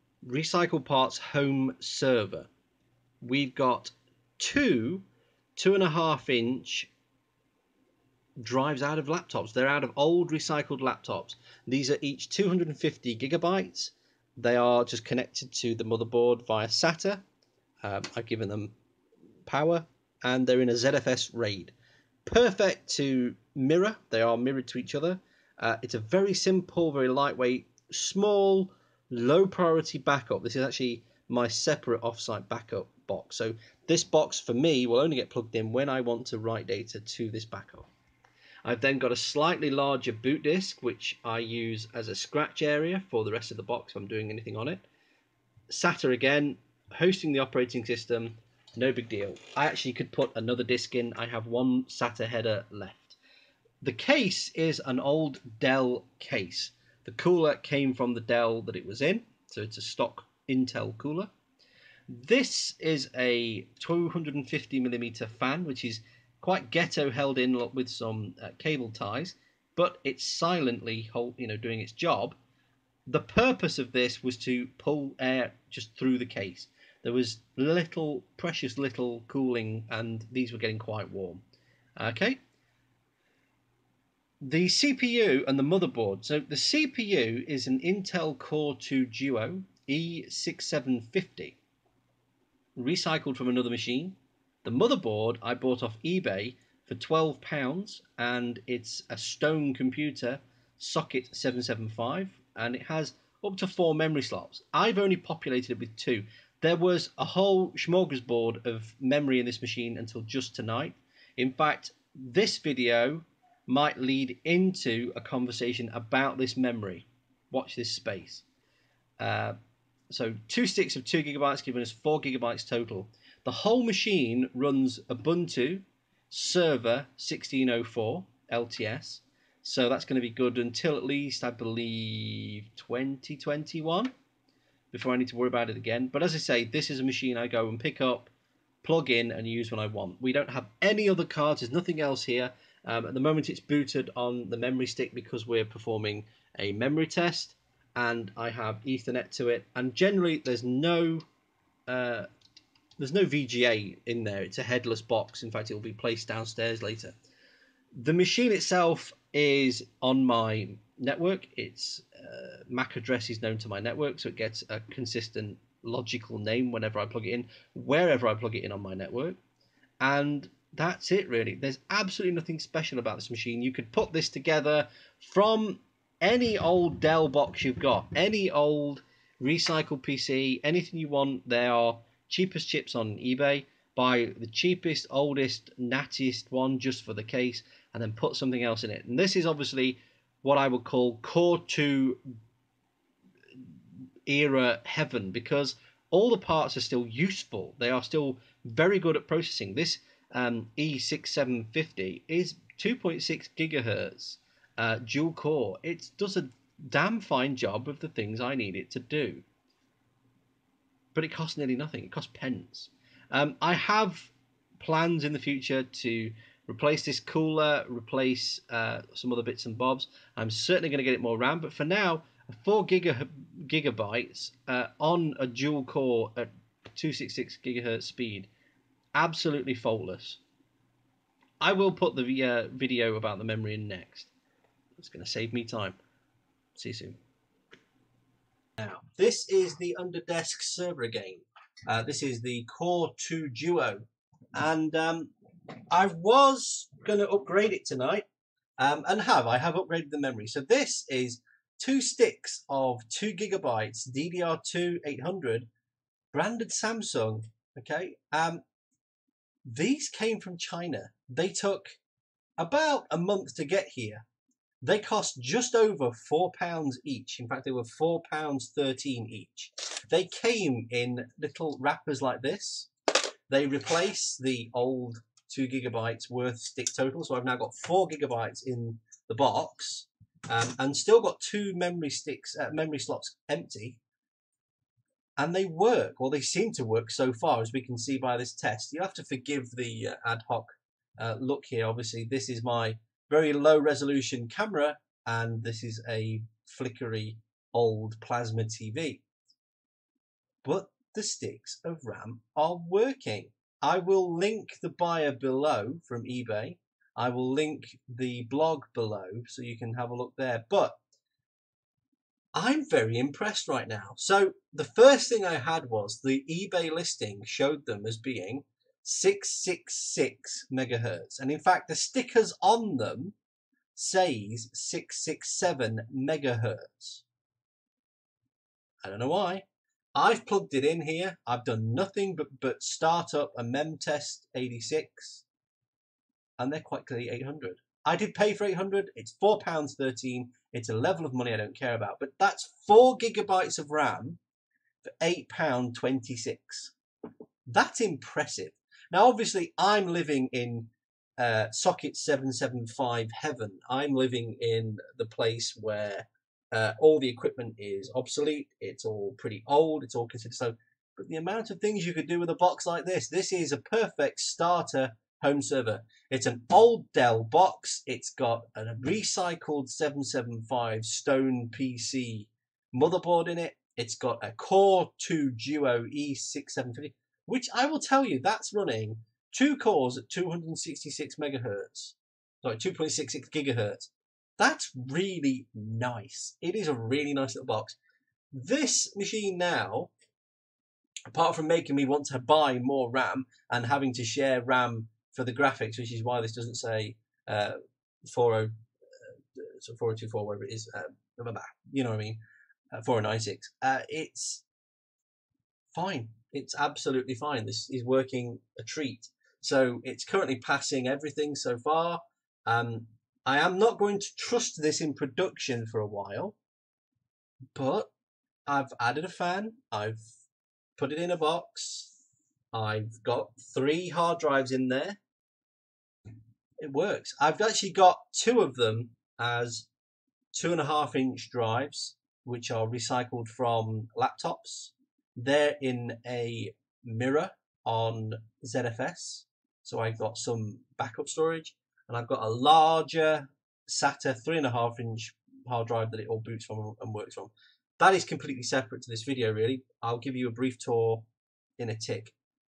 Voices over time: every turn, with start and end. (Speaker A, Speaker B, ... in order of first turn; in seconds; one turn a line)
Speaker A: 0.2-2.5
Speaker A: 3.2-6.9
Speaker A: 8.4-17.2
Speaker A: 17.8-18.7
Speaker A: 19.5-21.7
Speaker A: 22.2-37.9
Speaker A: 38.6-44.8
Speaker A: 45.7-53.2
Speaker A: 53.8-61.3
Speaker A: 62.1-72.4
Speaker A: 73.1-81.4
Speaker A: 82.0-82.4
Speaker A: 84.4-91.6
Speaker A: 92.8-118.4
Speaker A: 119.2-119.6
Speaker A: 120.1-134.1
Speaker A: 134.9-138.3
Speaker A: 138.8-151.2
Speaker A: 151.9-152.3
Speaker A: 153.0-157.2
Speaker A: 157.9-169.4
Speaker A: 170.0-192.2
Speaker A: 194.2-209.4
Speaker A: 211.1-228.5
Speaker A: 229.1-230.4
Speaker A: 231.6-234.3
Speaker A: 235.0-236.0
Speaker A: 236.8-237.2
Speaker A: 238.8-245.3
Speaker A: 245.9-248.3
Speaker A: 248.8-255.7
Speaker A: 256.3-258.6
Speaker A: 259.6-262.0
Speaker A: 262.6-264.2
Speaker A: 264.8-272.9
Speaker A: 273.5-284.0
Speaker A: 285.4-299.2
Speaker A: 300.6-311.0
Speaker A: 312.5-323.4
Speaker A: 323.9-327.2
Speaker A: 329.0-335.4
Speaker A: 336.6-344.4
Speaker A: 345.2-346.9
Speaker A: 347.7-388.0
Speaker A: 388.5-390.1
Speaker A: 391.3-402.4
Speaker A: 402.9-404.6
Speaker A: 405.9-416.6
Speaker A: 417.7-418.1
Speaker A: 418.7-420.2
Speaker A: 421.0-422.1
Speaker A: 422.7-425.2
Speaker A: 426.8-429.9
Speaker A: 430.5-451.2
Speaker A: 451.8-452.3